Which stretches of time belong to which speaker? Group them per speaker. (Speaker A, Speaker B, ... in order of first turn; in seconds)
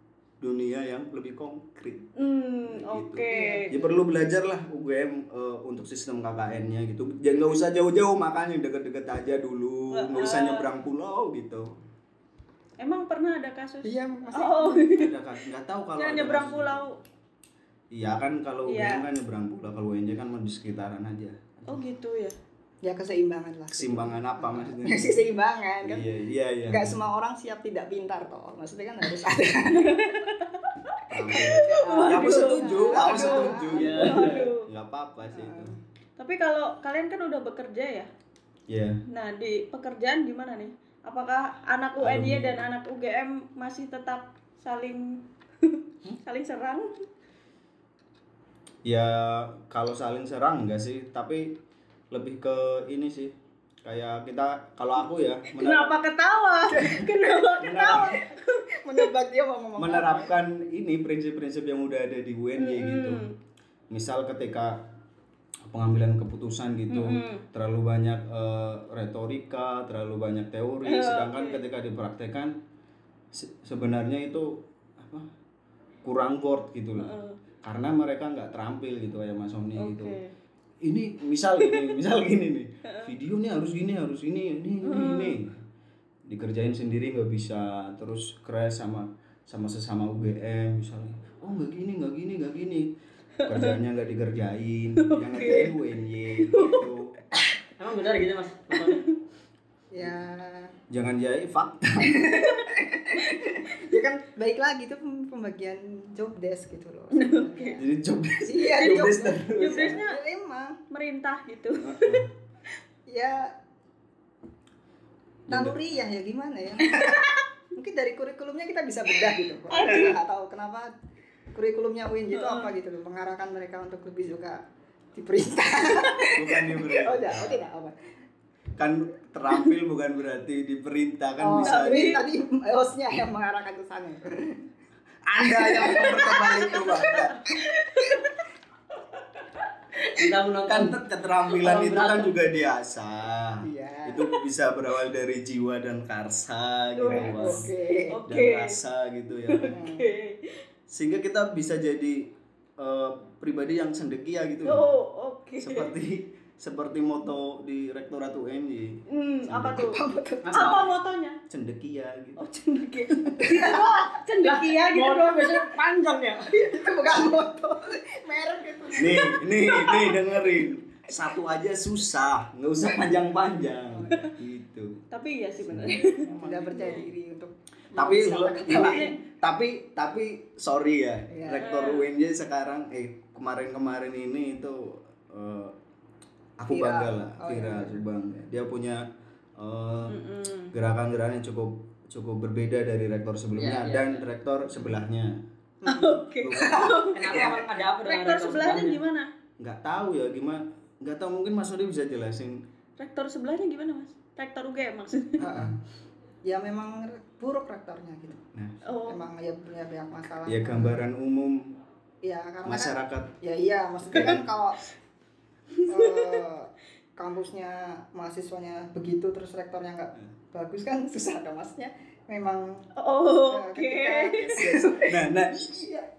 Speaker A: 0.4-2.1, 2.6-11.7, 14.9-16.9, 17.9-21.8, 23.7-25.2, 25.8-27.0, 31.1-35.7, 38.7-39.0, 42.0-42.6, 48.8-51.6, 52.1-56.0, 57.6-58.2, 59.8-63.2, 63.9-64.9, 65.7-72.6, 73.3-75.3, 76.0-77.1, 77.6-80.2, 80.8-85.6, 86.2-97.1, 100.9-102.4, 107.8-110.0, 111.8-112.3, 115.5-115.8, 126.3-127.6, 128.8-132.2, 135.3-137.4, 140.7-147.7, 148.3-149.8, 150.9-154.8, 155.6-159.9, 161.5-162.4, 169.0-175.0, 175.6-177.2, 177.9-185.8, 186.6-189.1, 189.6-190.2, 190.7-195.4, 196.4-197.1, 199.6-202.6, 205.5-205.8, 208.5-208.8, 210.5-211.8, 212.7-213.4, 214.1-214.4, 224.4-226.1
Speaker B: 2.2-3.8, 9.9-10.7, 12.8-15.1, 16.0-17.0, 18.7-19.1, 21.7-22.4, 29.7-34.7, 36.2-38.1, 39.1-46.9, 55.5-58.4, 62.6-63.3, 66.9-67.4, 70.8-71.6, 77.0-77.4, 79.8-80.3, 82.8-83.1, 84.8-85.4, 93.4-93.7, 95.0-95.7, 96.4-96.9, 98.7-99.1, 107.1-107.8, 108.8-110.2, 110.9-112.2, 116.8-117.4, 119.7-120.2, 122.3-122.7, 131.6-132.2, 136.2-138.3, 147.0-148.8, 149.5-150.6, 154.7-155.9, 159.1-161.4, 162.4-165.8, 169.8-170.1, 175.1-177.1, 178.7-179.2, 181.6-182.1, 190.1-190.7, 195.9-199.3, 203.0-205.4, 208.8-209.2, 215.7-216.4, 223.0-224.7
Speaker C: 3.3-3.8, 13.8-15.0, 22.8-26.1, 26.7-30.2, 31.3-34.1, 35.3-35.8, 58.8-60.3, 99.9-100.8, 102.2-107.9, 108.4-110.8, 113.1-113.6, 115.5-117.2, 117.7-120.9, 121.5-128.0, 131.4-134.7, 135.7-136.9, 143.6-144.3, 147.1-148.2, 149.7-150.1, 159.7-160.8, 163.4-164.1, 166.5-169.9, 173.9-174.3, 176.3-179.1, 181.3-181.7, 186.7-188.0, 195.8-197.6, 205.4-205.8, 206.4-208.4, 209.1-211.0, 212.2-214.8, 215.9-222.9, 223.5-225.3
Speaker D: 33.7-34.5, 97.8-99.0, 140.1-142.3, 160.5-160.8, 164.4-166.5, 193.6-194.2, 197.1-199.0